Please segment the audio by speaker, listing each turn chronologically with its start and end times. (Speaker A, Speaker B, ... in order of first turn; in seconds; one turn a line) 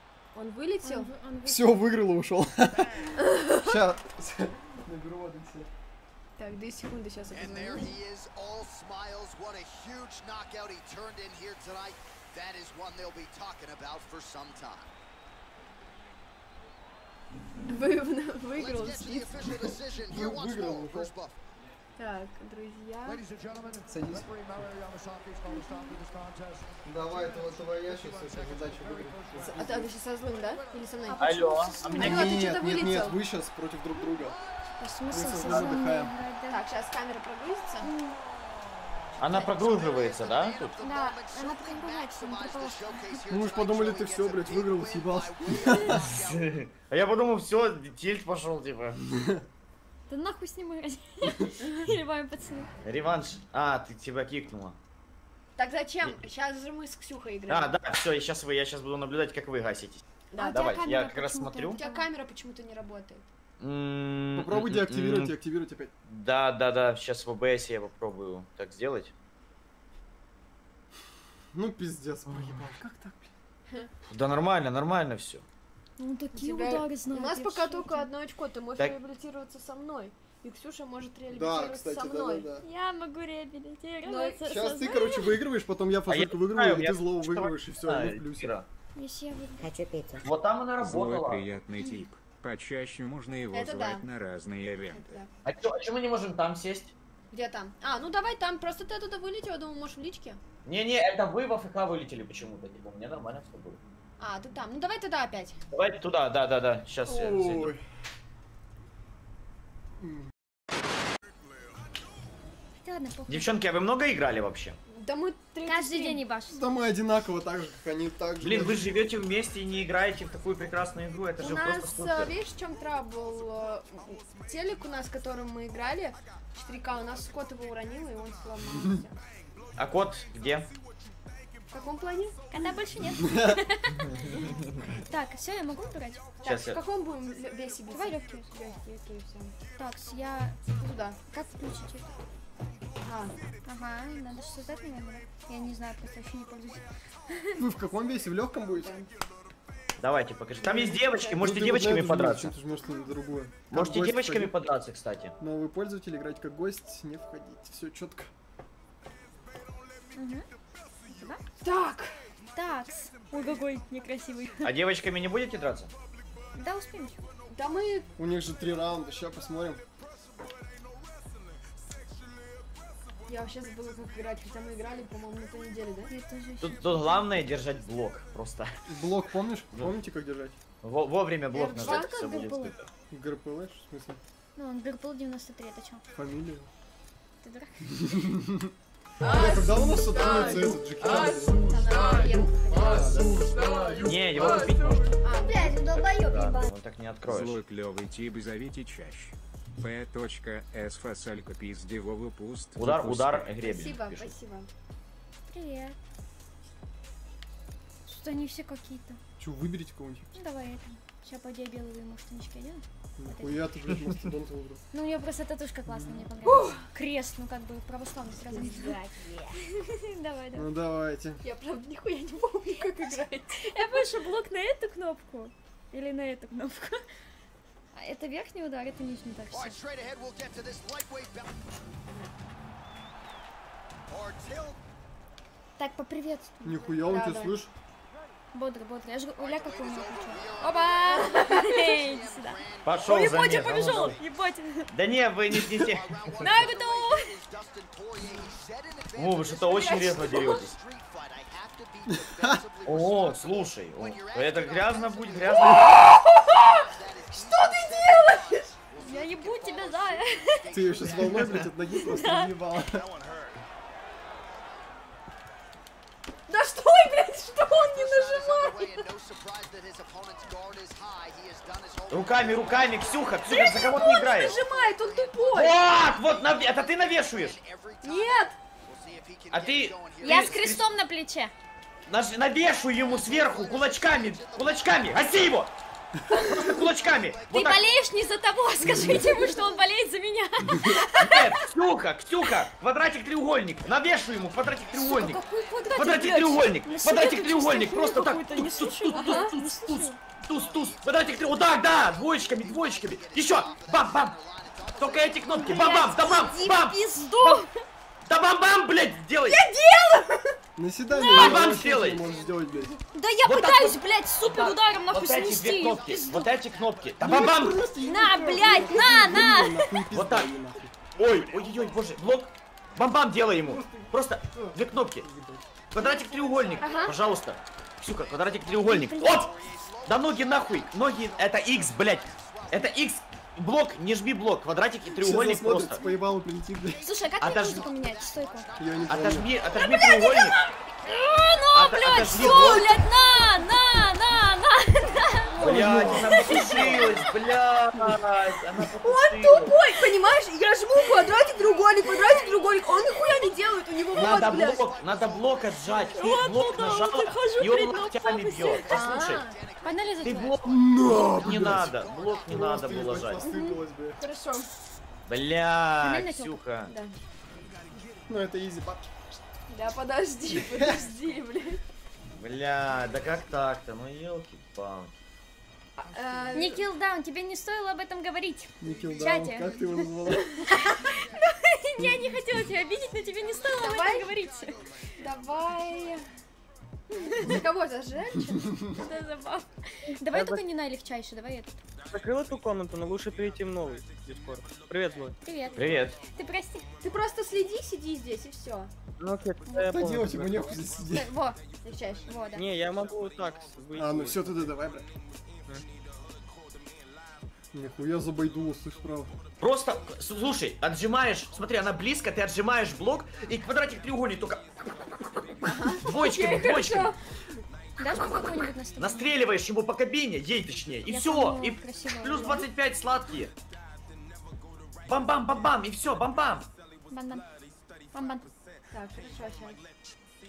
Speaker A: 0.3-1.1
Speaker B: 0.8-1.8
Speaker C: 1.4-2.9
Speaker D: 2.7-3.2
Speaker A: 3.2-3.8
Speaker C: 3.6-5.7
Speaker A: 6.4-7.9
Speaker D: 7.3-14.9
Speaker A: 17.7-19.5
Speaker D: 18.5-21.4
Speaker C: 20.0-21.1
Speaker A: 22.0-23.2
Speaker D: 23.1-28.4
Speaker C: 23.9-24.3
Speaker B: 25.5-26.0
Speaker C: 26.8-29.9
Speaker D: 29.1-29.6
Speaker A: 29.4-33.2
Speaker D: 30.3-30.8
Speaker B: 31.1-32.2
Speaker E: 31.2-32.2
Speaker C: 31.9-34.4
Speaker D: 34.0-34.6
Speaker B: 34.8-36.6
Speaker C: 35.1-36.1
Speaker A: 36.5-37.9
Speaker B: 37.8-38.2
Speaker E: 39.2-40.8
Speaker D: 39.2-46.7
Speaker B: 40.8-43.2
Speaker C: 43.3-46.0
Speaker E: 45.8-49.0
Speaker C: 49.1-49.4
Speaker B: 50.1-52.7
Speaker E: 52.8-54.8
Speaker A: 55.6-57.7
Speaker E: 57.5-61.8
Speaker A: 60.3-61.0
Speaker B: 60.4-62.1
Speaker A: 61.7-63.2
Speaker E: 63.6-65.3
Speaker C: 64.3-65.9
Speaker E: 66.0-69.1
Speaker C: 71.5-73.3
Speaker E: 72.3-72.6
Speaker E: 74.1-75.4
Speaker B: 76.0-78.1
Speaker A: 76.3-82.5
Speaker C: 81.3-82.6
Speaker B: 82.6-85.3
Speaker A: 84.0-84.4
Speaker C: 84.4-88.5
Speaker E: 86.1-88.7
Speaker B: 88.9-89.7
Speaker E: 90.2-91.4
Speaker F: 90.8-95.2
Speaker A: 93.5-94.0
Speaker A: 94.9-95.3
Speaker E: 95.4-96.9
Speaker A: 97.3-100.4
Speaker E: 100.6-103.8
Speaker A: 104.2-105.6
Speaker E: 105.7-107.7
Speaker C: 107.0-107.8
Speaker C: 110.0-110.3
Speaker B: 112.8-113.5
Speaker E: 113.3-114.8
Speaker A: 114.9-116.2
Speaker B: 115.6-116.6
Speaker C: 116.5-118.9
Speaker E: 118.4-122.3
Speaker A: 121.4-129.2
Speaker E: 129.8-130.7
Speaker A: 131.7-132.4
Speaker B: 132.5-134.1
Speaker C: 133.2-133.6
Speaker B: 135.0-136.2
Speaker A: 136.4-139.6
Speaker E: 136.4-136.8
Speaker B: 137.9-138.5
Speaker B: 139.8-140.6
Speaker A: 140.8-141.2
Speaker B: 141.3-142.1
Speaker A: 143.0-143.3
Speaker B: 143.6-147.6
Speaker C: 147.6-148.9
Speaker A: 148.8-149.1
Speaker E: 150.0-152.5
Speaker A: 150.6-151.3
Speaker C: 150.7-154.5
Speaker E: 153.7-155.3
Speaker C: 155.4-158.3
Speaker B: 160.2-160.4
Speaker B: 161.1-161.4
Speaker A: 161.6-162.2
Speaker B: 162.5-164.7
Speaker E: 164.6-165.9
Speaker B: 166.5-167.2
Speaker A: 167.5-168.1
Speaker C: 168.2-169.8
Speaker A: 173.3-176.1
Speaker B: 176.1-177.3
Speaker E: 176.6-178.7
Speaker C: 178.9-180.6
Speaker E: 180.8-182.9
Speaker B: 181.5-182.8
Speaker A: 181.5-182.2
Speaker C: 183.1-184.2
Speaker B: 184.5-186.0
Speaker C: 186.1-186.7
Speaker B: 187.4-187.8
Speaker C: 187.9-191.9
Speaker A: 189.2-194.2
Speaker C: 192.7-193.7
Speaker E: 194.0-195.2
Speaker A: 195.2-196.6
Speaker E: 196.0-197.6
Speaker F: 197.2-203.5
Speaker E: 202.8-204.3
Speaker A: 203.6-204.7
Speaker B: 205.5-206.0
Speaker B: 208.1-209.2
Speaker C: 209.4-210.3
Speaker B: 210.3-213.7
Speaker C: 213.2-214.8
Speaker B: 214.9-219.0
Speaker C: 215.9-216.2
Speaker A: 216.4-216.9
Speaker A: 218.5-219.6
Speaker B: 219.6-220.7
Speaker C: 220.5-221.4
Speaker A: 221.4-224.2
Speaker B: 223.6-227.0
Speaker B: 227.9-229.8
Speaker D: 229.5-231.8
Speaker D: 234.1-234.8
Speaker B: 235.8-236.8
Speaker C: 236.6-237.7
Speaker A: 237.0-237.6
Speaker B: 238.5-244.9
Speaker D: 239.3-241.3
Speaker A: 240.8-241.9
Speaker D: 241.8-244.3
Speaker E: 242.8-244.2
Speaker E: 244.9-246.1
Speaker D: 245.8-261.7
Speaker B: 246.4-247.3
Speaker E: 249.2-250.7
Speaker A: 249.7-250.6
Speaker C: 252.1-252.6
Speaker E: 252.8-256.0
Speaker A: 255.7-258.7
Speaker B: 259.0-260.6
Speaker C: 260.7-263.1
Speaker E: 261.1-261.7
Speaker B: 261.9-262.5
Speaker D: 262.7-263.6
Speaker A: 266.5-269.0
Speaker D: 267.6-280.8
Speaker E: 272.1-274.6
Speaker A: 273.5-275.8
Speaker E: 275.5-277.6
Speaker A: 278.0-278.6
Speaker E: 279.5-280.8
Speaker B: 280.2-281.5
Speaker E: 282.1-285.7
Speaker D: 282.9-285.6
Speaker B: 286.3-286.7
Speaker E: 286.4-287.8
Speaker D: 286.5-289.8
Speaker B: 287.5-291.6
Speaker C: 288.9-289.2
Speaker E: 291.2-295.4
Speaker D: 294.3-296.0
Speaker A: 295.0-296.7
Speaker E: 295.9-304.4
Speaker B: 296.8-300.2
Speaker A: 299.1-299.5
Speaker D: 300.4-306.4
Speaker E: 305.0-307.6
Speaker B: 305.5-307.7
Speaker A: 306.2-307.6
Speaker E: 308.2-309.6
Speaker A: 309.5-310.5
Speaker C: 310.8-312.9
Speaker B: 311.1-311.6
Speaker E: 311.3-312.2
Speaker D: 311.6-312.7
Speaker B: 313.1-316.5
Speaker E: 313.4-317.8
Speaker D: 315.9-317.3
Speaker C: 317.2-320.9
Speaker B: 318.0-319.9
Speaker D: 318.9-319.3
Speaker E: 320.1-320.5
Speaker D: 321.1-322.2
Speaker E: 321.1-325.3
Speaker C: 323.6-325.6
Speaker E: 325.9-329.5
Speaker D: 326.0-327.1
Speaker A: 326.8-327.1
Speaker B: 328.8-329.5
Speaker D: 329.2-333.1
Speaker E: 330.0-336.0
Speaker C: 335.1-337.0
Speaker D: 336.8-344.4
Speaker B: 337.0-338.7
Speaker E: 337.4-337.9
Speaker C: 338.8-339.5
Speaker E: 339.1-340.6
Speaker B: 339.7-347.1
Speaker E: 341.7-343.0
Speaker A: 342.3-342.8
Speaker D: 345.0-345.4
Speaker A: 345.5-347.2
Speaker E: 345.6-349.7
Speaker C: 345.6-347.2
Speaker A: 349.0-354.8
Speaker D: 351.5-353.5
Speaker E: 354.1-359.4
Speaker D: 354.1-356.7
Speaker B: 356.1-360.6
Speaker A: 358.9-359.4
Speaker D: 359.2-363.4
Speaker E: 360.2-363.4
Speaker C: 360.6-364.2
Speaker A: 363.5-364.7
Speaker E: 365.2-366.9
Speaker B: 366.0-366.6
Speaker A: 366.9-367.1
Speaker C: 368.3-369.4
Speaker A: 369.7-371.8
Speaker C: 370.7-371.0
Speaker E: 372.4-375.1
Speaker A: 376.0-376.8
Speaker B: 376.5-384.8
Speaker C: 378.8-380.6
Speaker A: 380.7-381.0
Speaker A: 383.8-384.3
Speaker A: 385.2-386.2
Speaker B: 387.1-387.5
Speaker A: 387.4-388.9
Speaker B: 389.0-391.8
Speaker G: 390.3-390.6
Speaker G: 392.1-395.4
Speaker B: 395.4-396.9
Speaker E: 395.7-396.2
Speaker A: 397.0-398.9
Speaker G: 399.2-400.7
Speaker B: 399.6-399.9
Speaker C: 399.9-401.3
Speaker B: 401.1-401.6
Speaker A: 401.8-402.3
Speaker B: 402.3-402.6
Speaker G: 402.6-404.7
Speaker C: 403.9-405.1
Speaker C: 407.7-409.3
Speaker E: 409.6-414.6
Speaker E: 415.1-417.1
Speaker A: 415.6-417.2
Speaker B: 418.0-419.3
Speaker E: 418.1-423.5
Speaker B: 421.1-422.6
Speaker A: 422.3-422.6
Speaker E: 425.1-426.7
Speaker B: 427.1-427.4
Speaker B: 428.1-428.5
Speaker A: 428.9-429.8